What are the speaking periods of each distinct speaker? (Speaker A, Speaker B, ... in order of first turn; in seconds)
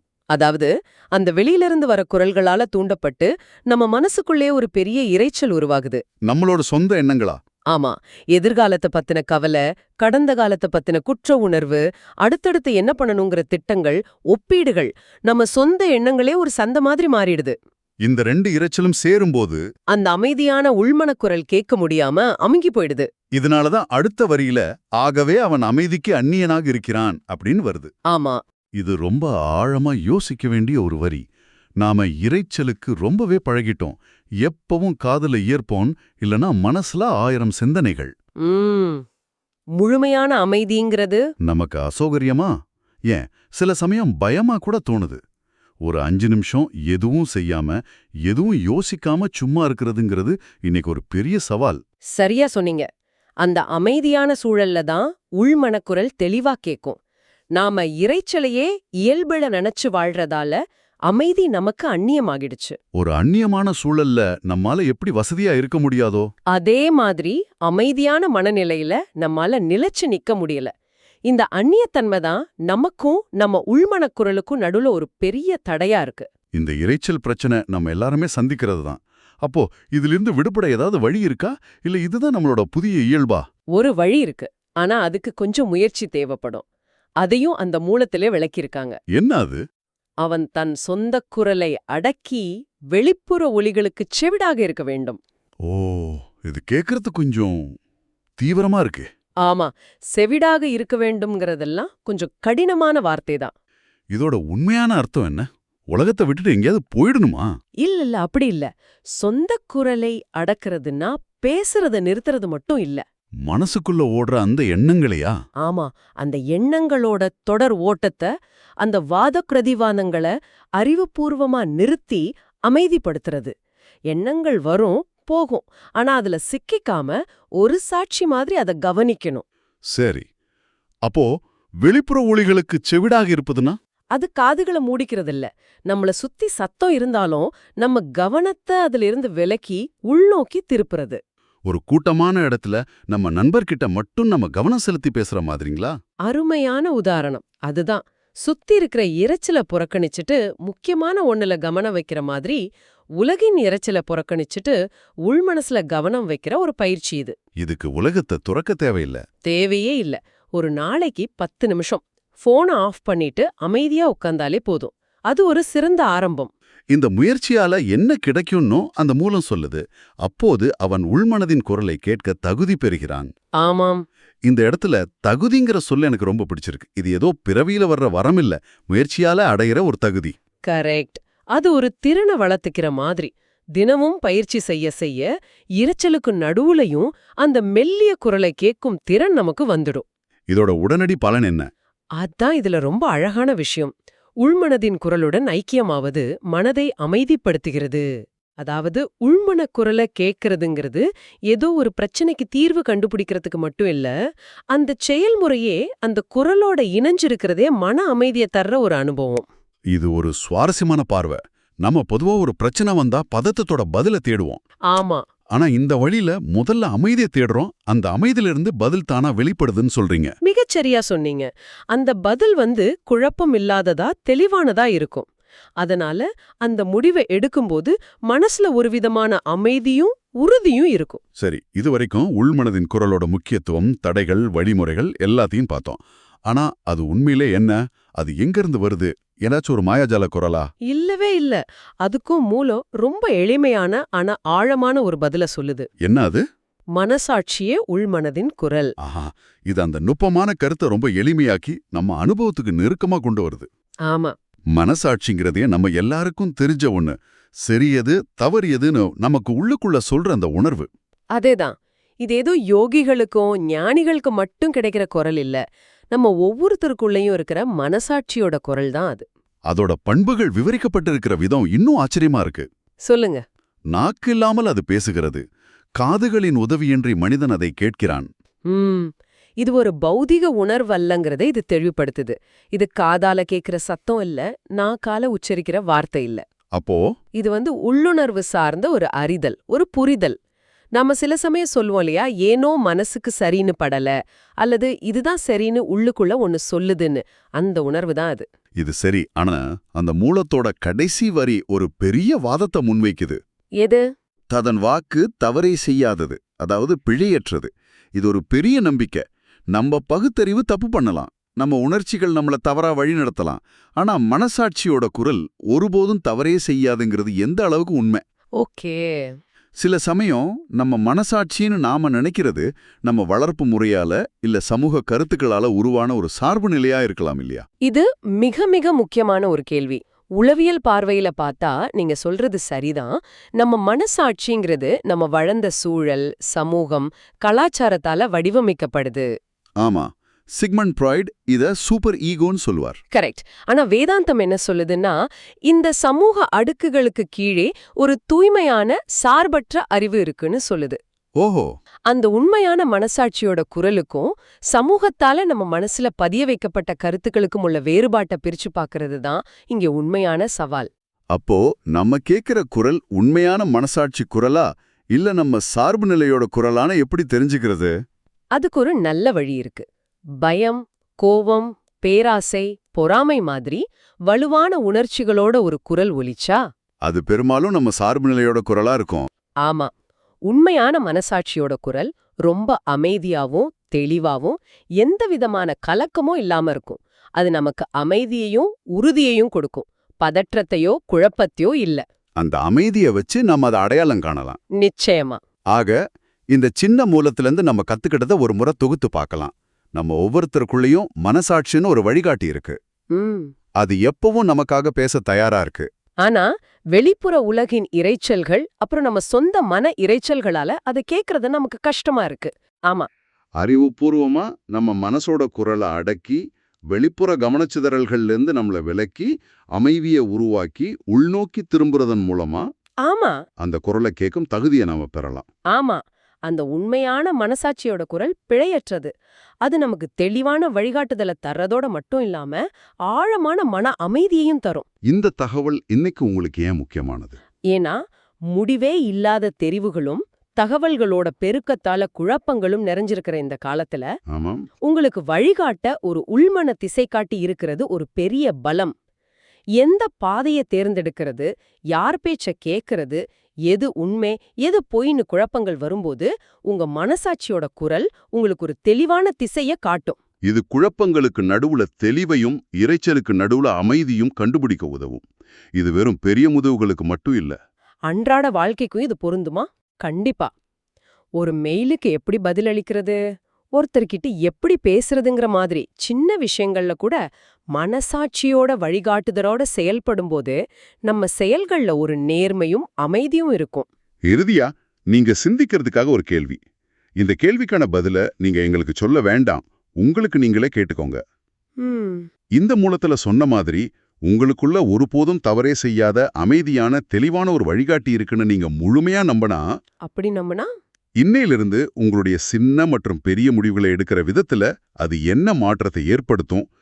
Speaker A: 0.3-6.0, 7.7-17.5, 19.9-23.1, 28.1-28.4, 38.4-39.0, 39.8-41.2, 52.1-52.9, 53.4-57.0, 57.5-62.8, 66.5-70.7, 71.3-76.3, 83.7-86.6, 87.2-89.0, 90.2-95.2, 99.5-103.5, 107.8-113.0, 115.6-118.3, 118.8-123.5, 124.1-129.4, 134.1-141.2, 146.3-152.6, 153.2-154.7, 155.2-157.3, 159.4-166.5, 173.6-174.0, 180.7-185.3, 185.8-190.0, 192.2-198.1, 198.6-204.1, 204.7-209.4, 214.9-215.2, 220.4-225.3, 225.8-231.2, 240.9-245.9, 246.9-248.9, 254.1-254.3, 261.3-265.6, 266.1-269.2, 273.1-273.4, 278.7-279.1, 279.6-286.4, 287.4-290.3, 290.9-298.4, 318.6-319.3, 327.9-339.3, 343.1-351.0, 352.1-360.9, 368.6-369.9, 370.4-376.6, 379.6-379.9, 380.5-392.0, 394.8-395.4, 403.1-403.5, 406.2-413.1, 423.0-423.4, 425.7-429.1, 429.6-434.9, 437.7-438.0, 438.5-444.1, 444.9-448.9, 449.8-460.2, 468.1-470.5, 471.4-473.2, 473.8-477.2, 477.7-480.6, 481.1-483.9, 491.8-492.3, 500.1-500.7
Speaker B: 6.3-7.4, 18.0-19.6, 23.4-27.9, 28.8-31.2, 31.8-38.1, 41.4-42.5, 43.1-45.2, 45.8-51.8, 62.9-66.3, 76.5-83.4, 89.1-89.6, 95.7-97.6, 98.4-99.0, 104.1-107.5, 113.5-115.3, 129.9-130.2, 131.8-133.8, 141.7-145.9, 157.6-159.2, 166.9-173.3, 174.4-180.3, 190.5-191.7, 209.9-214.6, 215.5-220.3, 231.4-240.7, 246.0-246.4, 249.0-253.7, 254.7-260.9, 269.7-272.6, 273.9-275.4, 276.0-278.3, 286.7-287.0, 298.8-303.4, 304.5-318.2, 319.8-327.6, 339.8-343.0, 351.4-351.7, 361.3-367.9, 377.1-379.3, 392.4-394.6, 396.5-402.8, 403.8-405.9, 413.6-422.6, 423.6-425.4, 435.1-437.4, 444.3-444.7, 460.4-467.6, 484.3-486.6, 487.2-491.2, 492.6-499.6, 501.2-506.7